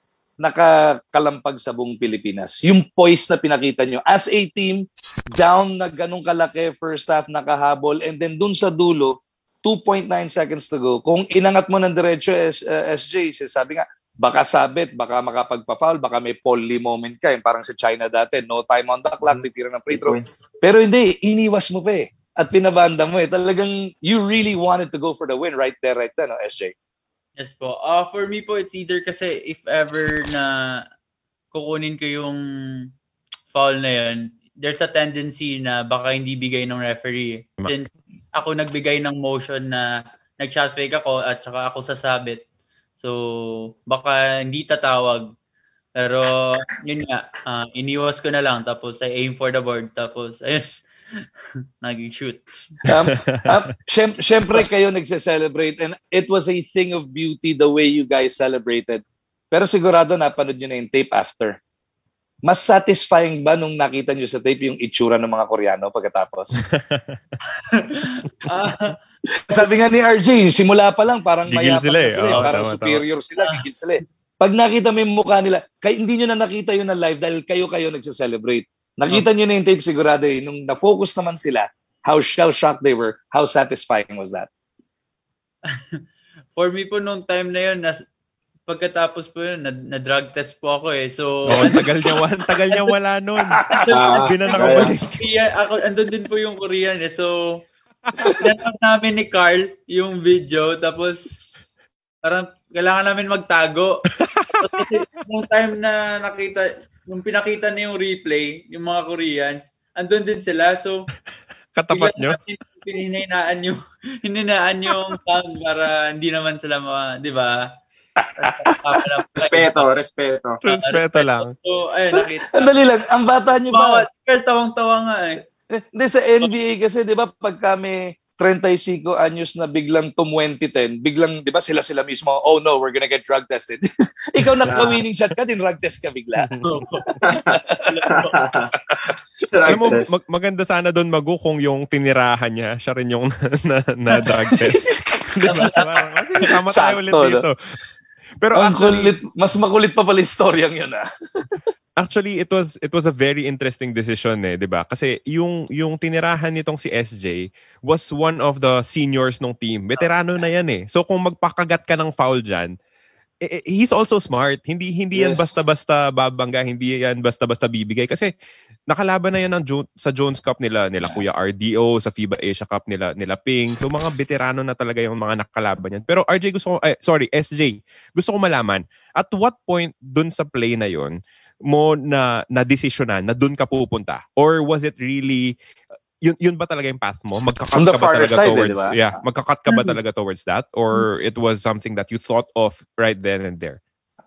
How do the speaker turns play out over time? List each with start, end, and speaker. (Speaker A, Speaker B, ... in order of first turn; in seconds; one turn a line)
Speaker A: 0.4-26.7
Speaker B: 19.2-20.4
Speaker C: 27.4-30.5
Speaker C: 31.5-32.4
Speaker C: 33.5-39.9
Speaker C: 40.4-42.4
Speaker C: 43.0-45.2
Speaker C: 46.0-51.2
Speaker C: 51.8-52.5
Speaker A: 52.9-61.6
Speaker A: 62.5-66.6
Speaker D: 66.8-67.2
Speaker C: 67.7-69.0
Speaker A: 69.4-84.5
Speaker D: 71.5-73.0
Speaker C: 73.4-73.6
Speaker C: 85.7-86.0
Speaker C: 86.5-88.0
Speaker C: 88.7-91.9
Speaker D: 91.5-95.2
Speaker C: 92.7-92.9
Speaker C: 93.8-97.3
Speaker B: 93.9-94.9
Speaker C: 98.4-101.3
Speaker C: 102.2-104.0
Speaker D: 104.4-104.8
Speaker C: 104.6-111.0
Speaker D: 111.8-112.4
Speaker C: 111.9-117.6
Speaker D: 114.9-115.2
Speaker A: 118.2-118.7
Speaker C: 118.4-119.9
Speaker B: 119.4-120.6
Speaker C: 120.6-122.8
Speaker D: 120.7-121.5
Speaker A: 122.1-124.1
Speaker C: 123.7-125.4
Speaker A: 125.8-136.6
Speaker B: 134.7-135.0
Speaker C: 136.6-137.3
Speaker C: 137.9-138.3
Speaker B: 138.1-138.7
Speaker B: 139.5-140.1
Speaker D: 139.7-147.6
Speaker A: 144.4-144.8
Speaker C: 145.4-145.9
Speaker A: 146.5-147.5
Speaker D: 148.4-149.2
Speaker A: 148.6-151.0
Speaker D: 152.0-162.7
Speaker D: 163.5-168.3
Speaker B: 165.1-165.7
Speaker D: 168.9-181.2
Speaker D: 181.7-185.5
Speaker D: 186.2-193.8
Speaker A: 187.8-189.0
Speaker C: 189.7-190.0